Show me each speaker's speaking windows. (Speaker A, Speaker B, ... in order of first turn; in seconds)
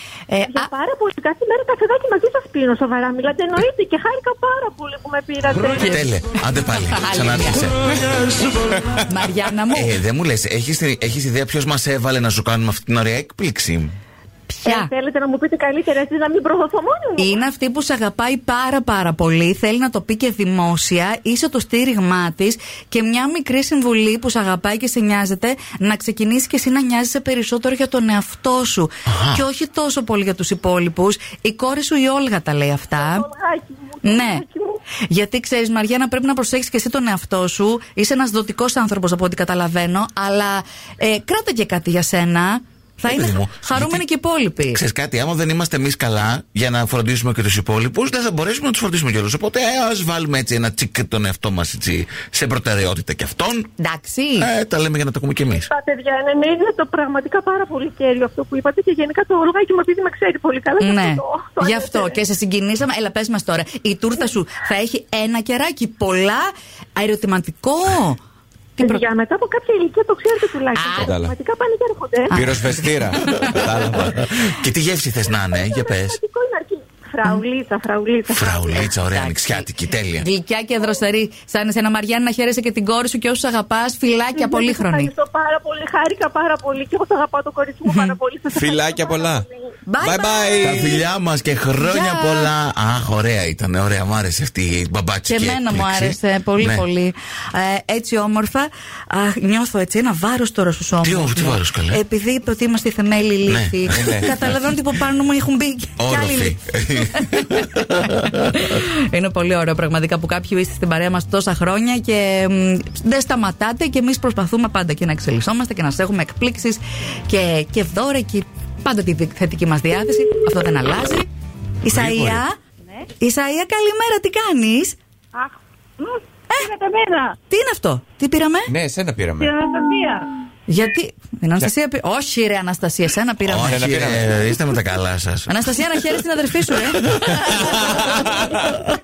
Speaker A: 0.3-0.7, 6.9-7.7, 9.1-9.9, 14.5-14.9, 17.2-33.3, 34.0-34.4, 35.1-44.8, 53.8-54.5, 60.8-68.2, 70.7-71.1, 72.3-73.7, 79.0-85.1, 87.9-88.2, 89.9-91.0, 91.8-92.5, 95.3-121.3, 121.8-122.6, 123.2-125.0, 127.5-128.7, 130.7-133.8, 135.5-137.6
Speaker B: 0.4-6.1, 14.7-17.4, 33.0-34.8, 55.7-62.2, 68.8-72.5, 75.5-78.9, 84.3-89.7
Speaker C: 5.8-8.0, 9.7-13.9, 29.1-29.5, 43.1-44.0, 44.7-53.7, 54.4-55.7, 74.3-76.2, 78.3-80.3, 90.6-96.8, 101.0-102.0, 103.5-104.1, 106.0-108.3, 133.5-135.8, 137.2-137.8
Speaker D: 71.0-71.3, 72.3-74.3, 88.5-89.5, 90.0-91.0, 103.9-104.3, 121.9-122.4, 128.7-129.6, 133.6-134.4, 137.2-138.7
Speaker E: 125.3-127.4, 129.4-130.3